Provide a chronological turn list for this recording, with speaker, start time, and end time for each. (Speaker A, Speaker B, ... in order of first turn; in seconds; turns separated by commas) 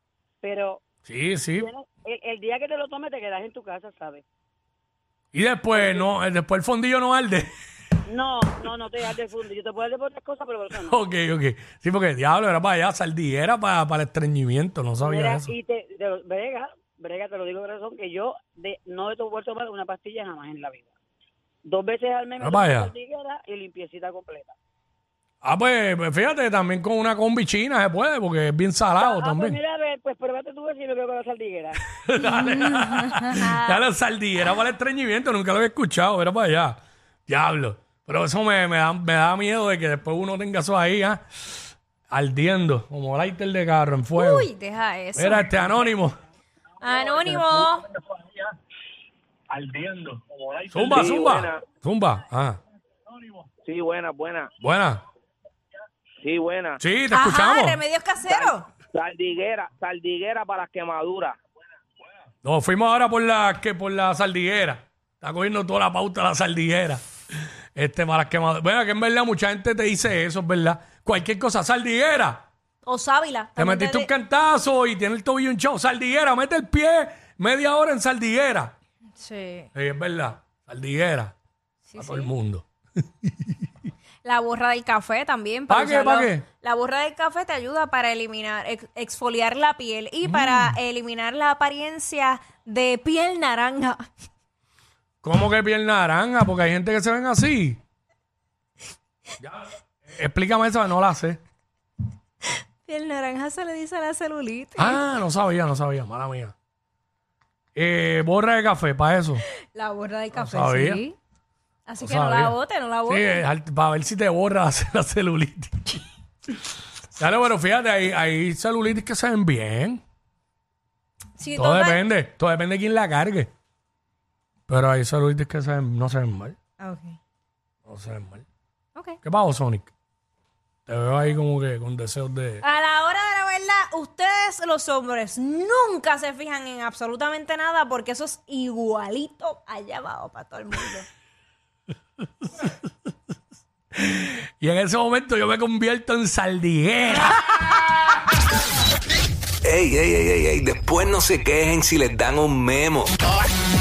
Speaker A: 0.4-0.8, Speaker B: 1.1-1.7, Speaker A: 1.6-4.2, Speaker B: 5.3-7.5, Speaker A: 5.7-6.0, Speaker A: 8.1-11.0, Speaker B: 10.8-15.5, Speaker A: 15.0-20.9, Speaker A: 21.6-24.5, Speaker B: 22.4-22.9, Speaker B: 25.4-29.6, Speaker A: 29.0-31.8, Speaker B: 32.0-36.8, Speaker C: 32.2-33.8, Speaker B: 37.3-41.2, Speaker B: 42.1-44.5, Speaker C: 44.1-45.9, Speaker B: 45.1-46.2, Speaker C: 46.8-47.9, Speaker D: 47.3-47.6, Speaker D: 49.5-51.6, Speaker B: 50.7-52.6, Speaker D: 53.6-54.5, Speaker B: 54.6-55.0, Speaker D: 56.2-56.8, Speaker B: 56.8-57.8, Speaker C: 57.1-58.6, Speaker D: 58.3-61.4, Speaker B: 62.4-67.0, Speaker B: 67.7-72.4, Speaker C: 72.8-74.1, Speaker B: 73.6-78.7, Speaker C: 79.2-79.7, Speaker B: 79.7-81.3, Speaker C: 81.9-82.3, Speaker B: 82.0-82.6, Speaker B: 83.2-83.5, Speaker C: 84.2-94.0, Speaker B: 85.7-86.4, Speaker B: 90.2-90.7, Speaker B: 95.2-97.8, Speaker B: 99.4-101.4, Speaker C: 102.9-105.0, Speaker B: 104.8-106.5, Speaker B: 107.8-109.4, Speaker C: 109.7-111.2, Speaker B: 110.3-111.0, Speaker C: 111.9-113.4, Speaker B: 112.0-112.5, Speaker B: 113.0-116.0, Speaker B: 117.2-120.0, Speaker C: 121.4-122.0, Speaker B: 121.5-123.5, Speaker B: 124.7-126.5, Speaker C: 126.8-127.2, Speaker B: 127.9-128.4, Speaker B: 129.2-129.9, Speaker B: 130.9-132.6, Speaker C: 132.6-141.1, Speaker B: 143.9-147.6, Speaker E: 149.6-153.1